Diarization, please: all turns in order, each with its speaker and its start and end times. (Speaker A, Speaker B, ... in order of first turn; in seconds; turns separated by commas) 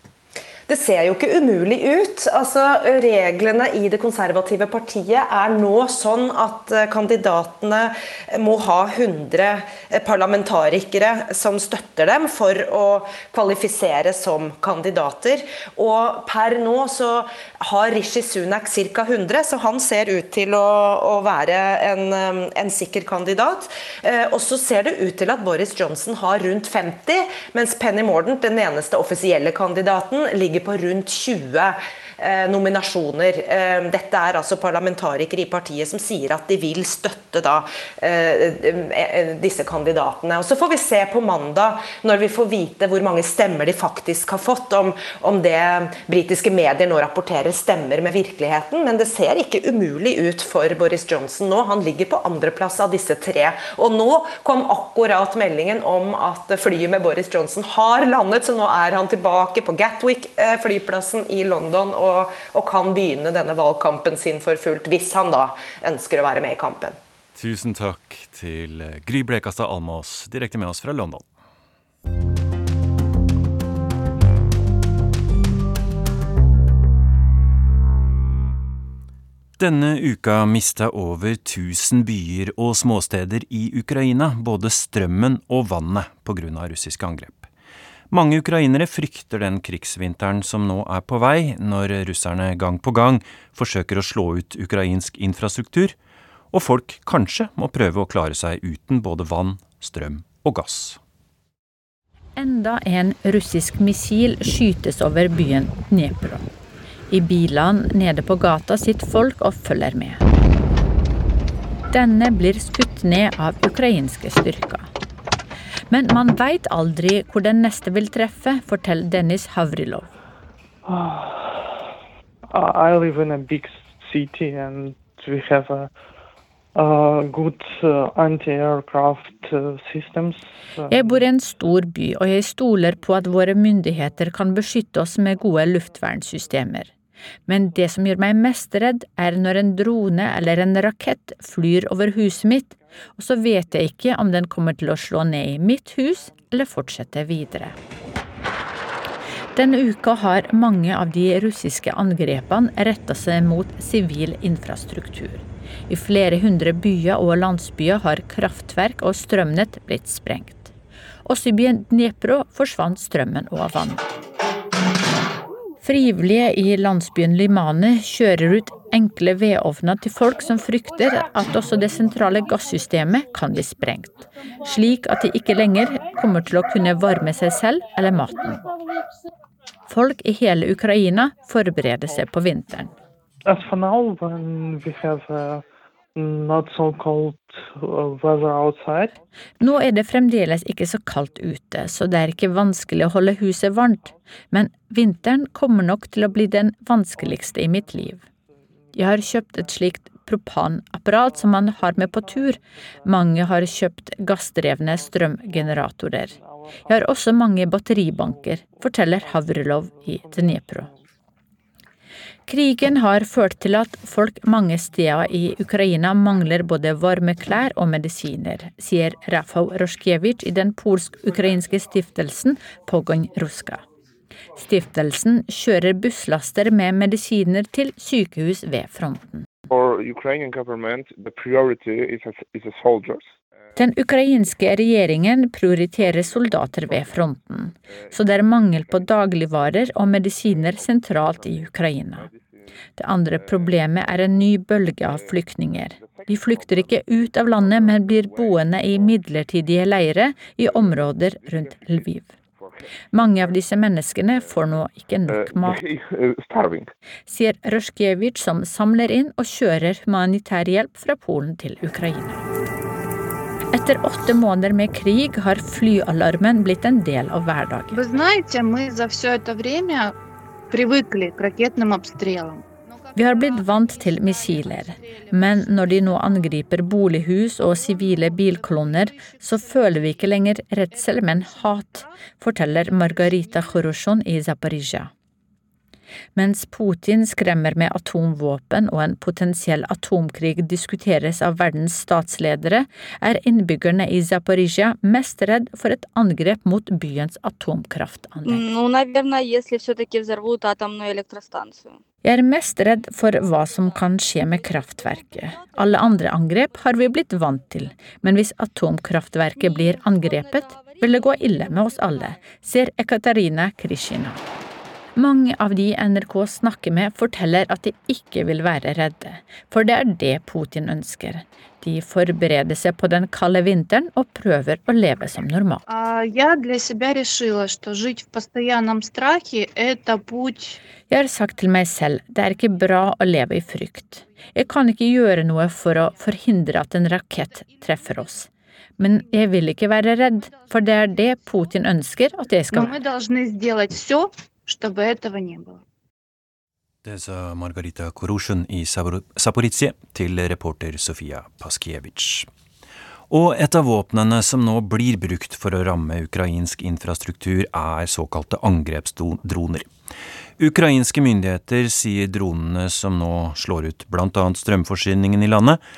Speaker A: 0.7-67.0, Speaker B: 67.3-71.2, Speaker B: 79.6-87.5, Speaker B: 88.1-96.0, Speaker B: 96.5-101.0, Speaker C: 102.4-106.5, Speaker C: 107.1-110.2, Speaker C: 111.9-114.9, Speaker C: 115.9-120.1, Speaker D: 120.9-121.7, Speaker D: 122.5-125.9, Speaker D: 126.7-131.1, Speaker C: 130.9-136.9, Speaker C: 137.5-147.7, Speaker C: 149.5-160.7, Speaker C: 161.2-164.1, Speaker C: 165.8-178.6, Speaker C: 179.9-182.9, Speaker D: 183.4-185.6, Speaker D: 186.2-189.1, Speaker C: 189.6-198.2, Speaker C: 198.9-206.3, Speaker D: 206.4-206.7, Speaker C: 206.9-210.9, Speaker C: 212.5-223.8, Speaker C: 224.6-229.5, Speaker C: 233.8-242.2, Speaker C: 243.0-252.3, Speaker C: 253.1-255.9, Speaker C: 257.3-262.4, Speaker C: 263.7-268.0, Speaker E: 267.9-270.1, Speaker E: 270.7-272.6, Speaker C: 273.1-285.1, Speaker C: 286.3-298.6, Speaker C: 302.2-314.4, Speaker C: 315.1-325.8, Speaker E: 325.9-330.8, Speaker C: 331.1-342.9, Speaker E: 342.7-345.8, Speaker B: 347.0-352.5, Speaker B: 353.3-359.9, Speaker B: 360.6-365.8